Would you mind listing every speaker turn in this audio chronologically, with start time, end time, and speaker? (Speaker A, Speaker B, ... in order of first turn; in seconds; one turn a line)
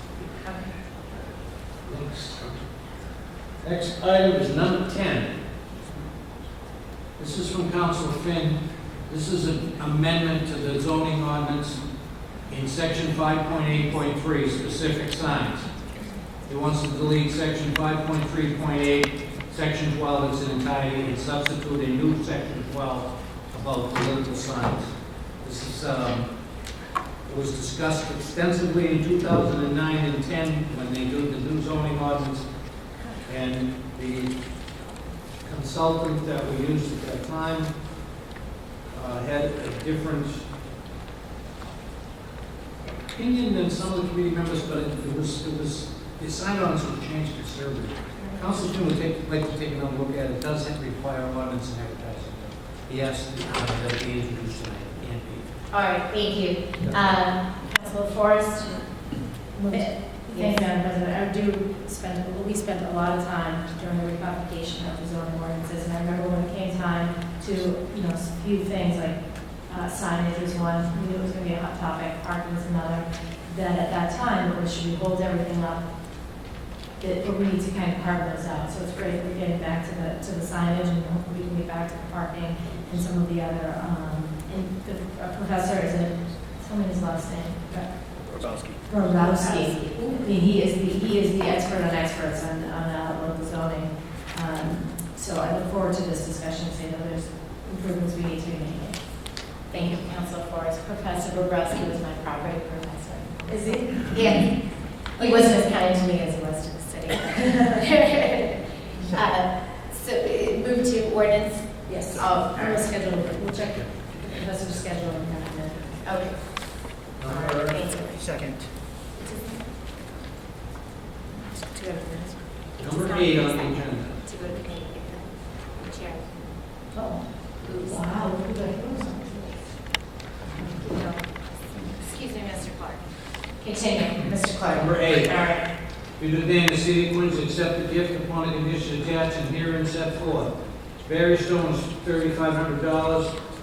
Speaker A: 1.8-2.7
Speaker A: 3.6-5.4
Speaker A: 7.2-15.7
Speaker A: 16.5-26.4
Speaker A: 27.3-32.5
Speaker A: 33.3-34.3
Speaker A: 35.4-37.7
Speaker A: 38.9-40.5
Speaker A: 42.9-55.5
Speaker B: 55.7-60.7
Speaker C: 59.5-75.8
Speaker C: 77.0-88.1
Speaker D: 88.2-88.8
Speaker C: 88.8-100.0
Speaker B: 89.1-90.3
Speaker B: 99.7-112.7
Speaker C: 103.5-104.1
Speaker C: 105.2-105.7
Speaker C: 111.9-116.0
Speaker D: 112.1-112.9
Speaker B: 116.0-116.7
Speaker B: 117.2-118.4
Speaker A: 117.2-117.9
Speaker D: 118.2-118.7
Speaker B: 119.2-119.6
Speaker B: 121.3-126.4
Speaker A: 122.8-124.3
Speaker C: 126.9-129.6
Speaker B: 130.7-133.0
Speaker B: 133.6-135.7
Speaker A: 134.7-135.5
Speaker A: 136.2-143.4